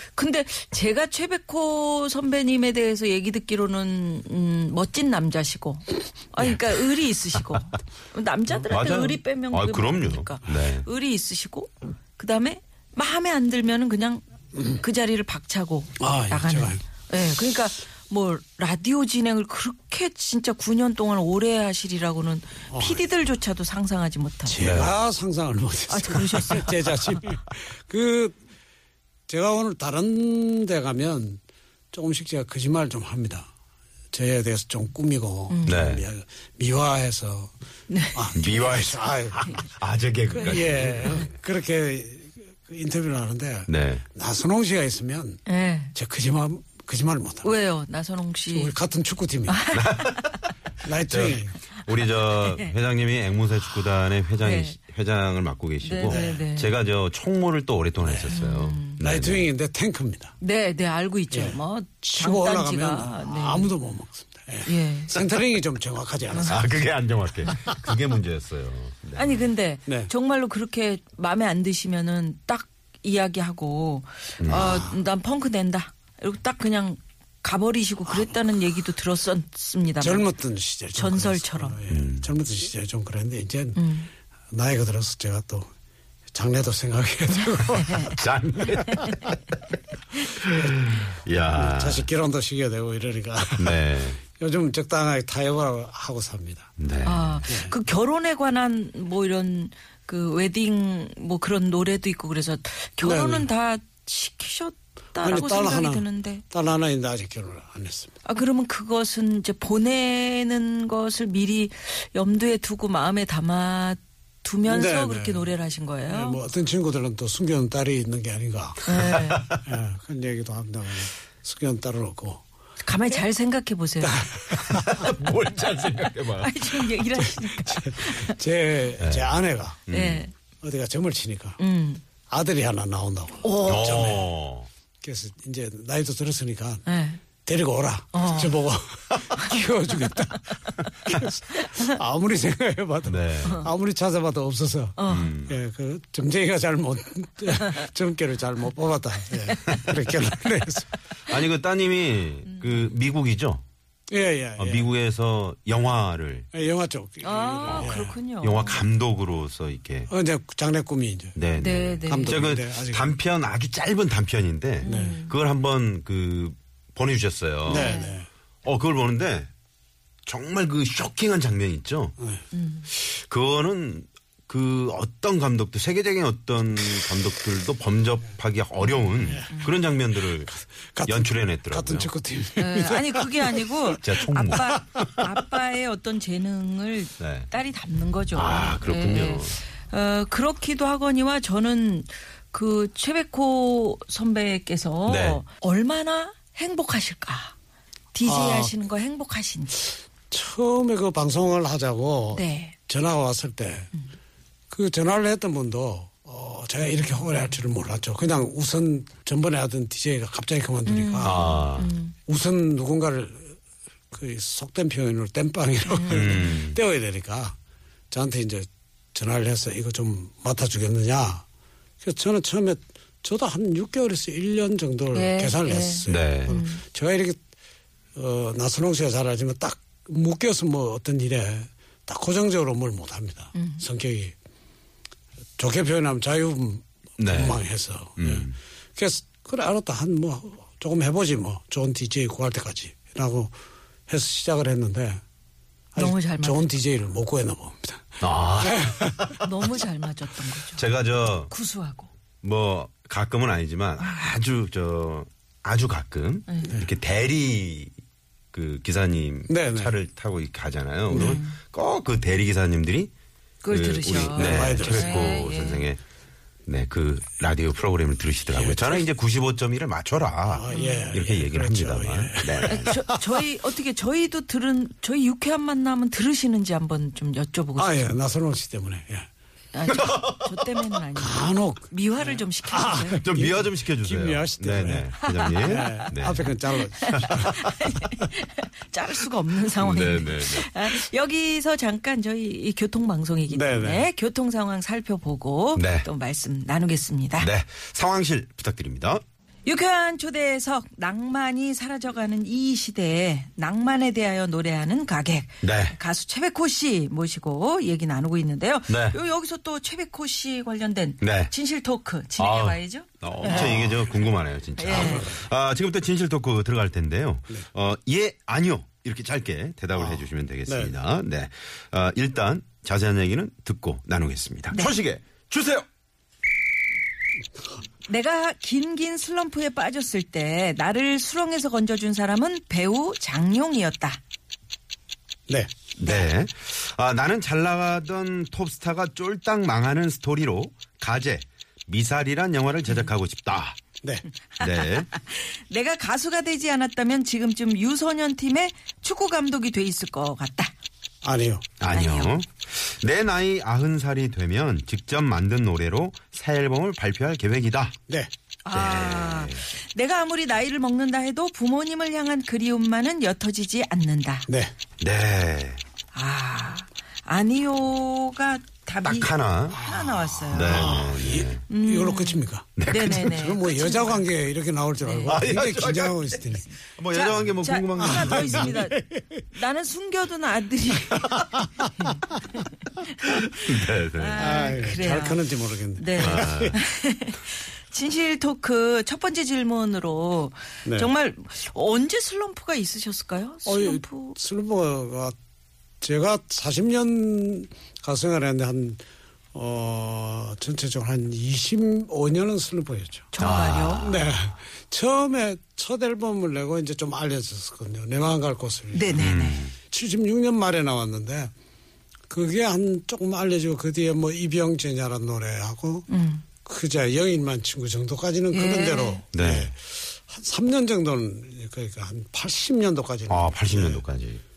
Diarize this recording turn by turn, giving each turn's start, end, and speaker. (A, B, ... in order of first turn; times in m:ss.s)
0:00.2-0:24.7 A
0:08.7-0:10.9 B
0:16.0-0:16.8 C
0:22.7-0:23.1 C
0:24.5-0:28.4 C
0:24.6-0:25.0 B
0:25.9-0:27.2 A
0:29.3-0:31.4 C
0:31.9-0:33.5 C
0:34.1-0:37.5 C
0:35.5-0:35.8 A
0:35.6-0:36.0 B
0:37.9-0:38.2 A
0:38.1-0:39.7 C
0:38.4-0:39.0 B
0:39.6-0:41.3 B
0:40.3-0:47.6 C
0:43.7-0:44.0 B
0:45.5-0:45.9 A
0:47.4-0:48.7 A
0:48.5-0:49.7 C
0:49.5-0:50.3 A
0:49.7-0:50.4 B
0:50.8-0:51.6 C
0:51.1-0:59.5 B
0:52.2-0:52.7 A
0:54.4-0:54.8 A
0:55.8-0:56.7 A
0:56.1-0:56.4 C
0:58.0-0:58.4 C
0:58.3-0:59.0 A
0:59.0-1:00.4 C
1:00.4-1:03.8 A
1:01.3-1:06.7 C
1:04.6-1:05.1 A
1:06.3-1:06.6 A
1:06.4-1:09.5 B
1:09.2-1:20.3 A
1:14.4-1:14.9 B
1:14.5-1:15.0 C
1:18.1-1:18.4 C
1:20.0-1:23.8 C
1:20.9-1:21.8 A
1:21.9-1:22.3 B
1:23.8-1:24.1 A
1:24.5-1:25.7 C
1:26.3-1:28.8 C
1:27.7-1:28.2 A
1:28.2-1:29.4 B
1:28.9-1:29.2 A
1:30.4-1:30.9 C
1:30.4-1:32.1 B
1:31.5-1:36.7 C
1:33.6-1:34.2 B
1:36.8-1:37.4 B
1:37.0-1:46.4 A
1:37.4-1:37.7 C
1:43.0-1:43.5 C
1:45.2-1:48.2 C
1:48.2-1:56.4 A
1:54.7-1:55.6 C
1:56.1-2:02.4 C
1:58.8-1:59.4 A
1:59.0-1:59.6 B
2:02.8-2:04.2 A
2:04.0-2:05.1 C
2:04.5-2:06.9 B
2:06.4-2:08.4 A
2:07.2-2:09.9 C
2:09.0-2:09.3 B
2:09.9-2:10.2 B
2:09.9-2:10.3 A
2:10.6-2:11.6 C
2:11.6-2:12.0 A
2:12.3-2:14.3 C
2:13.4-2:14.2 A
2:13.7-2:14.7 B
2:15.0-2:16.8 C
2:16.9-2:17.2 A
2:17.4-2:30.9 C
2:18.1-2:18.6 A
2:21.5-2:21.9 A
2:23.0-2:23.7 B
2:25.0-2:25.3 A
2:25.1-2:25.5 B
2:31.2-2:33.6 B
2:34.1-2:34.9 C
2:34.6-2:36.5 B
2:36.5-2:38.2 C
2:37.2-2:38.9 A
2:37.7-2:40.1 B
2:40.1-2:41.4 C
2:41.4-2:47.9 B
2:41.6-2:42.4 A
2:42.1-2:43.2 C
2:44.8-2:45.4 A
2:44.8-2:45.2 C
2:47.7-2:48.2 A
2:47.7-2:48.3 C
2:48.6-2:49.5 B
2:50.2-2:52.2 B
2:52.2-2:52.4 C
2:52.5-2:52.9 A
2:52.9-3:02.1 B
2:59.2-2:59.7 C
3:00.4-3:05.3 C
3:02.6-3:17.5 A
3:04.0-3:04.8 B
3:07.2-3:07.5 B
3:08.4-3:09.6 B
3:15.1-3:15.4 B
3:18.1-3:19.9 A
3:18.2-3:18.9 C
3:20.3-3:23.9 C
3:22.3-3:22.8 A
3:24.7-3:31.5 C
3:30.8-3:32.2 A
3:31.2-3:31.9 B
3:32.2-3:33.6 C
3:34.1-3:37.6 C
3:35.8-3:36.2 A
3:36.1-3:36.8 B
3:38.1-3:41.4 C
3:42.0-3:47.4 C
3:45.1-3:46.8 A
3:46.1-3:46.6 B
3:48.2-3:54.3 C
3:53.6-3:53.8 A
3:55.6-4:03.5 C
3:57.2-3:57.6 B
3:58.2-3:58.6 B
4:04.1-4:05.2 C
4:05.9-4:09.4 C
4:06.0-4:06.7 A
4:08.2-4:09.4 B
4:09.4-4:12.1 A
4:10.8-4:11.5 B
4:12.4-4:17.9 B
4:18.5-4:23.1 B
4:19.5-4:19.9 C
4:21.1-4:21.4 C
4:21.2-4:21.6 A
4:23.6-4:25.8 A
4:23.7-4:26.0 B
4:24.3-4:25.3 C
4:26.7-4:33.0 B
4:28.5-4:29.1 C
4:30.4-4:33.3 C
4:30.7-4:31.1 A
4:32.7-4:38.2 A
4:37.8-4:39.3 C
4:39.7-4:43.5 A
4:40.0-4:40.5 B
4:41.2-4:48.2 C
4:43.2-4:46.6 B
4:45.2-4:46.1 A
4:47.0-4:57.5 A
4:47.1-4:47.4 B
4:49.8-4:50.7 B
4:53.5-4:54.1 C
4:55.8-4:56.1 B
4:57.4-4:59.2 B
4:59.6-5:13.9 A
5:05.6-5:06.0 B
5:08.9-5:09.2 B
5:11.2-5:11.5 B
5:12.4-5:25.8 B
5:13.6-5:13.8 C
5:14.8-5:15.4 A
5:14.9-5:15.4 C
5:19.9-5:20.9 C
5:28.1-5:34.2 A
5:36.0-5:43.8 B
5:36.0-5:36.3 A
5:44.5-5:50.7 A
5:44.6-5:45.1 B
5:51.2-5:51.6 C
5:51.8-5:58.0 B
5:51.9-5:52.3 A
5:58.7-6:04.5 A
5:58.7-5:59.6 B
6:04.5-6:04.7 C
6:05.0-6:05.8 B
6:06.1-6:11.0 A
6:09.0-6:09.8 B
6:09.8-6:16.7 C
6:10.5-6:11.6 B
6:11.7-6:14.3 A
6:12.8-6:13.3 B
6:15.0-6:15.5 A
6:15.3-6:18.8 B
6:17.1-6:23.6 A
6:18.0-6:19.4 C
6:23.5-6:24.4 B
6:24.1-6:34.4 A
6:24.4-6:26.8 C
6:26.2-6:26.8 B
6:30.8-6:31.1 C
6:33.7-6:35.3 C
6:36.0-6:39.0 C
6:39.5-6:43.3 C
6:43.3-6:44.1 A
6:43.4-6:44.2 B
6:44.0-6:51.5 C
6:48.9-6:49.7 A
6:49.1-6:49.8 B
6:52.3-6:56.1 C
6:56.1-6:56.4 A
6:56.6-7:04.0 C
6:58.5-6:59.2 A
6:59.3-6:59.7 B
7:03.3-7:04.4 B